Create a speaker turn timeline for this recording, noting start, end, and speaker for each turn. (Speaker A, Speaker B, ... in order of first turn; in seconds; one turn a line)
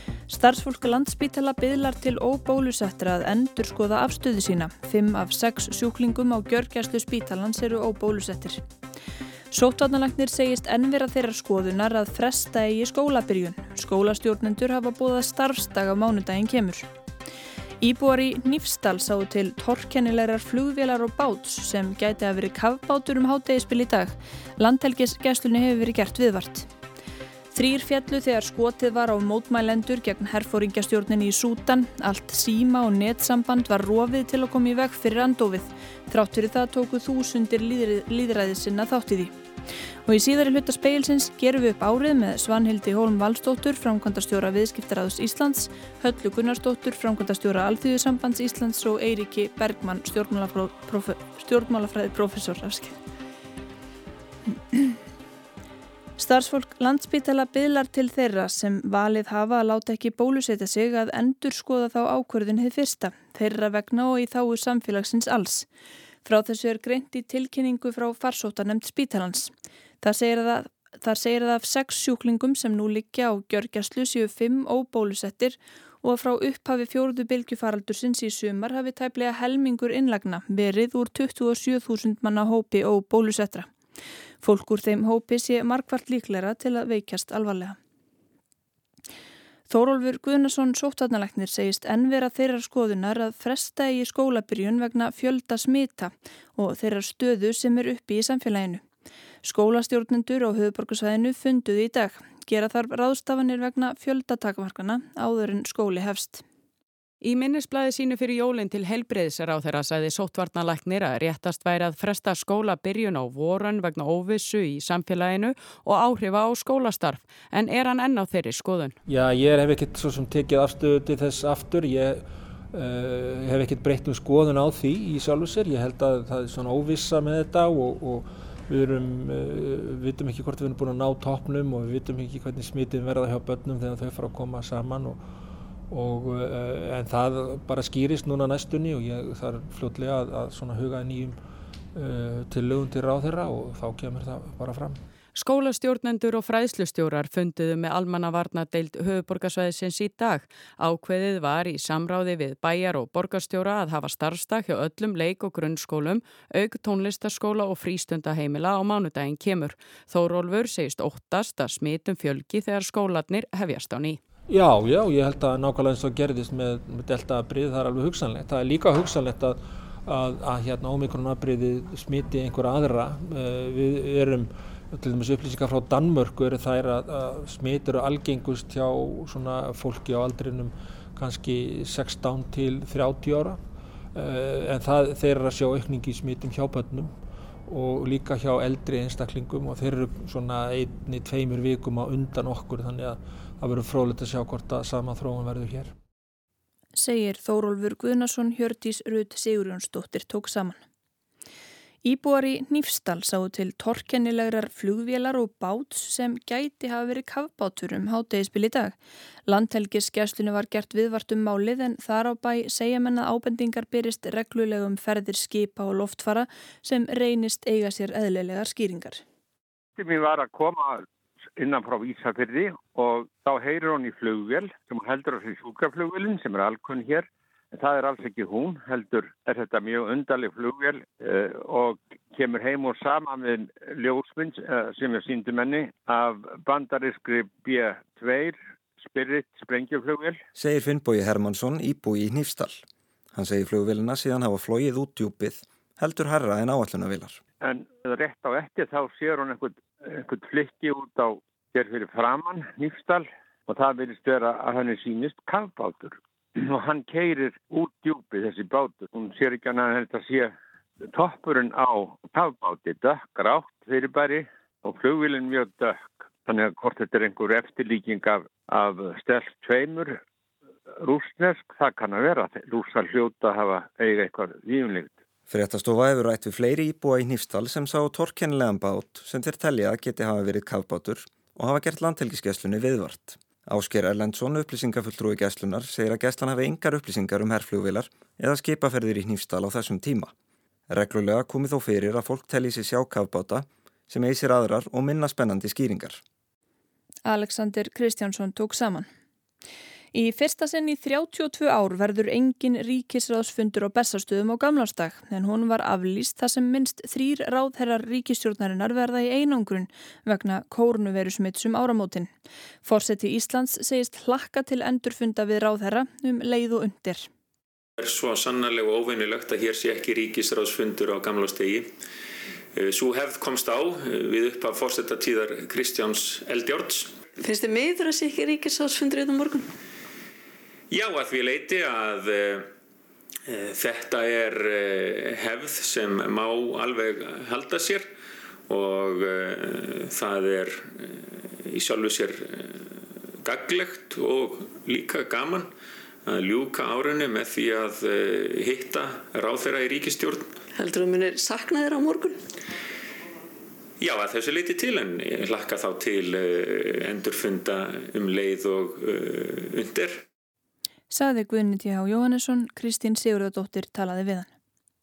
Speaker A: 0.3-8.6
Speaker A: 9.5-16.9
Speaker A: 17.8-26.7
Speaker A: 27.5-39.3
Speaker A: 40.0-53.0
Speaker A: 54.7-55.0
Speaker A: 56.2-65.7
Speaker A: 66.2-69.5
Speaker A: 70.0-83.7
Speaker A: 84.4-87.8
Speaker A: 89.7-98.8
Speaker A: 99.4-106.4
Speaker B: 107.2-119.0
Speaker C: 119.1-135.2
Speaker C: 135.9-141.4
Speaker C: 141.9-145.0
Speaker B: 145.3-164.2
Speaker C: 164.5-195.9
Speaker A: 196.9-200.8
Speaker A: 202.0-208.9
Speaker A: 209.5-219.2
Speaker D: 220.0-240.4
Speaker E: 240.5-247.4
Speaker D: 247.6-270.2
Speaker D: 271.0-275.2
Speaker E: 275.5-290.3
Speaker E: 290.9-296.2
Speaker A: 297.2-299.1
Speaker A: 300.1-312.3
Speaker A: 312.8-317.3
Speaker F: 318.0-321.9
Speaker F: 322.7-327.2
Speaker G: 327.4-329.7
Speaker F: 330.9-332.7
Speaker F: 333.4-338.1
Speaker F: 338.7-345.7
Speaker F: 346.2-350.5
Speaker G: 350.8-352.4
Speaker F: 354.0-360.2
Speaker A: 361.1-364.5